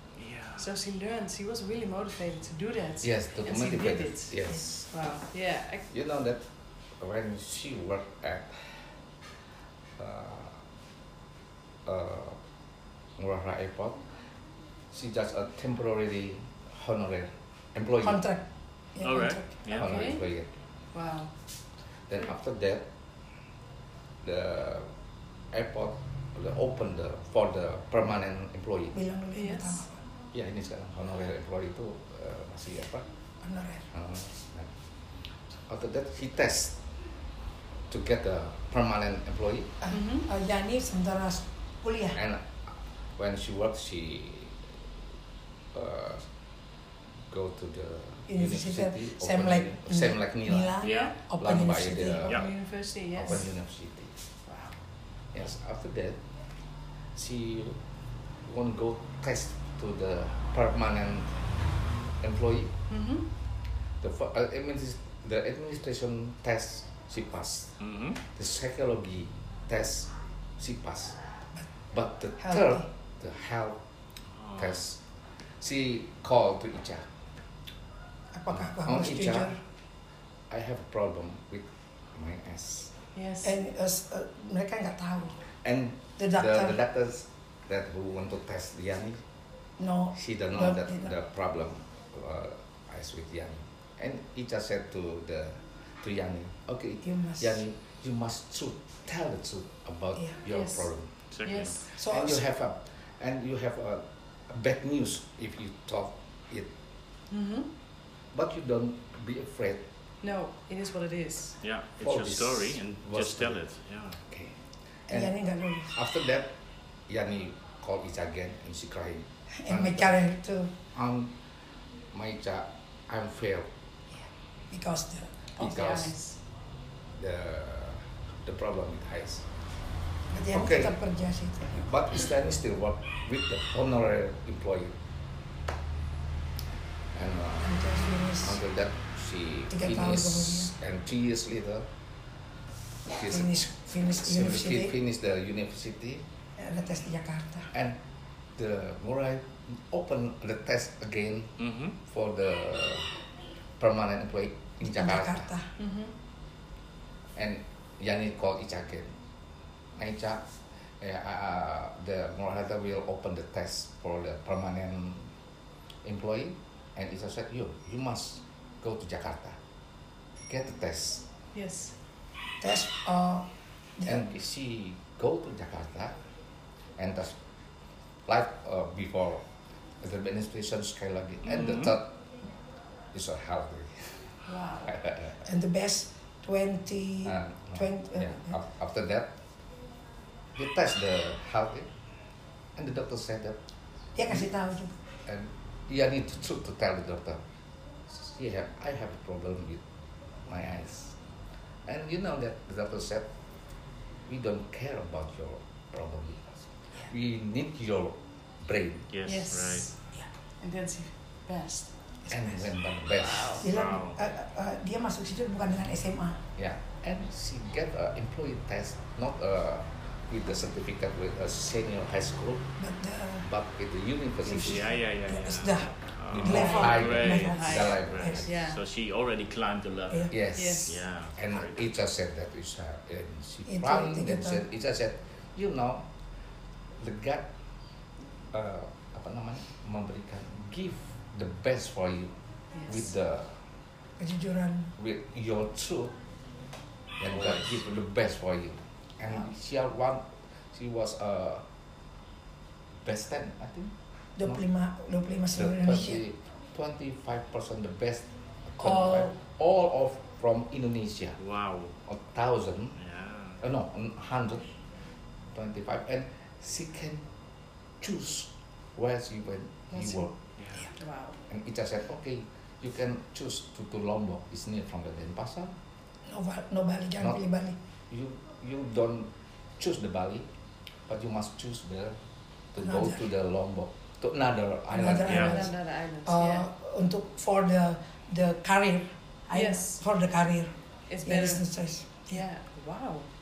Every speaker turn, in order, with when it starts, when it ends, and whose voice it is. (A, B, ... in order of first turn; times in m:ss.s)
0:00.2-0:00.6 A
0:00.6-0:04.4 B
0:03.0-0:04.8 C
0:04.9-0:05.8 B
0:05.9-0:06.4 C
0:07.0-0:08.9 C
0:10.0-0:10.6 C
0:11.8-0:12.4 C
0:13.2-0:14.0 C
0:14.9-0:18.2 C
0:18.0-0:19.5 D
0:19.0-0:19.9 A
0:19.7-0:20.5 C
0:19.7-0:20.3 B
0:20.9-0:21.3 B
0:22.1-0:22.8 C
0:24.2-0:24.9 C
0:25.5-0:29.0 C
0:28.9-0:30.0 D
0:29.3-0:29.8 B
0:30.3-0:33.1 C
0:33.4-0:33.9 D
0:33.9-0:34.7 C
0:35.7-0:36.8 C
0:37.9-0:39.8 C
0:39.8-0:42.2 D
0:39.9-0:40.3 B
0:42.1-0:44.6 C
0:45.7-0:46.2 C
0:47.3-0:50.8 C
0:48.3-0:52.4 D
0:50.8-0:51.1 A
0:50.8-0:51.1 B
0:51.4-0:52.3 C
0:52.2-0:52.5 A
0:52.3-0:53.4 B
0:53.1-0:54.1 C
0:55.3-0:56.2 C
0:57.1-0:57.8 C
0:58.4-1:01.3 C
1:02.2-1:02.7 C
1:02.9-1:03.2 B
1:04.0-1:07.7 C
1:07.8-1:08.2 A
1:08.3-1:11.2 C
1:11.9-1:13.8 C
1:12.4-1:12.8 D
1:14.4-1:14.7 A
1:14.6-1:15.0 C
1:15.6-1:17.1 C
1:18.3-1:19.6 D
1:18.5-1:19.6 C
1:20.5-1:22.9 C
1:23.1-1:23.6 B
1:23.4-1:25.4 D
1:25.6-1:29.2 C
1:26.2-1:26.8 D
1:29.8-1:31.1 D
1:30.1-1:41.1 C
1:37.0-1:37.6 D
1:40.5-1:40.9 B
1:41.3-1:41.8 A
1:41.4-1:41.9 B
1:42.0-1:42.4 D
1:42.0-1:46.7 C
1:47.3-1:47.7 B
1:48.3-1:49.8 C
1:50.2-1:51.6 B
1:51.6-1:54.2 A
1:52.0-1:53.6 C
1:54.3-1:54.6 C
1:55.1-1:55.3 C
1:55.1-1:55.9 D
1:55.9-1:56.5 C
1:57.1-2:00.2 C
1:59.6-2:00.7 D
2:00.9-2:01.3 C
2:02.1-2:03.7 C
2:04.1-2:05.5 D
2:05.6-2:06.4 B
2:05.6-2:06.1 C
2:07.2-2:09.5 C
2:10.3-2:11.9 D
2:10.5-2:10.9 C
2:11.8-2:15.0 C
2:17.1-2:17.8 C
2:17.6-2:18.6 D
2:18.4-2:21.9 C
2:19.7-2:20.7 D
2:23.1-2:23.5 C
2:23.2-2:24.9 D
2:24.2-2:26.2 C
2:26.6-2:27.7 D
2:28.6-2:33.1 C
2:31.6-2:31.9 A
2:33.8-2:35.5 C
2:34.8-2:35.7 D
2:35.8-2:36.1 B
2:37.4-2:39.1 C
2:40.0-2:40.4 C
2:41.0-2:45.3 C
2:46.0-2:49.6 C
2:50.5-2:51.2 C
2:51.5-2:52.0 B
2:52.6-2:54.2 D
2:54.0-2:56.1 C
2:57.0-2:57.4 C
2:58.2-2:59.4 C
3:00.0-3:02.1 C
3:01.4-3:01.9 A
3:03.1-3:05.4 C
3:04.4-3:05.0 B
3:05.4-3:08.6 D
3:07.2-3:09.3 C
3:10.5-3:11.9 C
3:12.8-3:13.6 C
3:14.1-3:14.9 D
3:15.2-3:17.4 C
3:18.1-3:19.8 C
3:20.4-3:21.2 C
3:21.8-3:23.3 C
3:24.3-3:29.1 C
3:29.1-3:29.9 A
3:29.2-3:29.9 B
3:30.6-3:31.9 B
3:32.3-3:33.6 C
3:33.2-3:33.6 B
3:33.6-3:34.2 A
3:33.6-3:36.4 D
3:36.6-3:42.7 C
3:42.8-3:43.5 D
3:43.4-3:44.9 C
3:44.5-3:48.4 D
3:44.6-3:51.9 A
3:46.3-3:48.5 C
3:46.4-3:48.8 B
3:50.3-3:56.1 C
3:50.5-3:50.9 B
3:53.7-3:54.6 D
3:57.0-3:57.5 C
3:58.5-4:02.3 C
4:02.7-4:03.0 B
4:02.8-4:03.6 C
4:04.2-4:04.9 D
4:05.0-4:06.2 C
4:07.2-4:11.6 C
4:07.2-4:07.8 A
4:13.0-4:14.6 C
4:14.4-4:16.2 D
4:15.5-4:21.4 C
4:18.8-4:19.3 D
4:21.4-4:22.0 A
4:22.0-4:23.0 C
4:23.0-4:23.6 A
4:23.6-4:24.7 C
4:25.5-4:27.2 C
4:28.0-4:30.3 C
4:30.6-4:30.9 A
4:31.0-4:31.4 B
4:31.5-4:35.7 C
4:36.2-4:37.8 D
4:38.1-4:40.5 C
4:41.1-4:42.2 C
4:42.7-4:45.7 C
4:42.8-4:43.2 D
4:44.9-4:45.7 D
4:45.2-4:45.6 A
4:45.3-4:46.6 B
4:46.2-4:52.4 D
4:49.5-4:50.0 B
4:51.1-4:53.3 B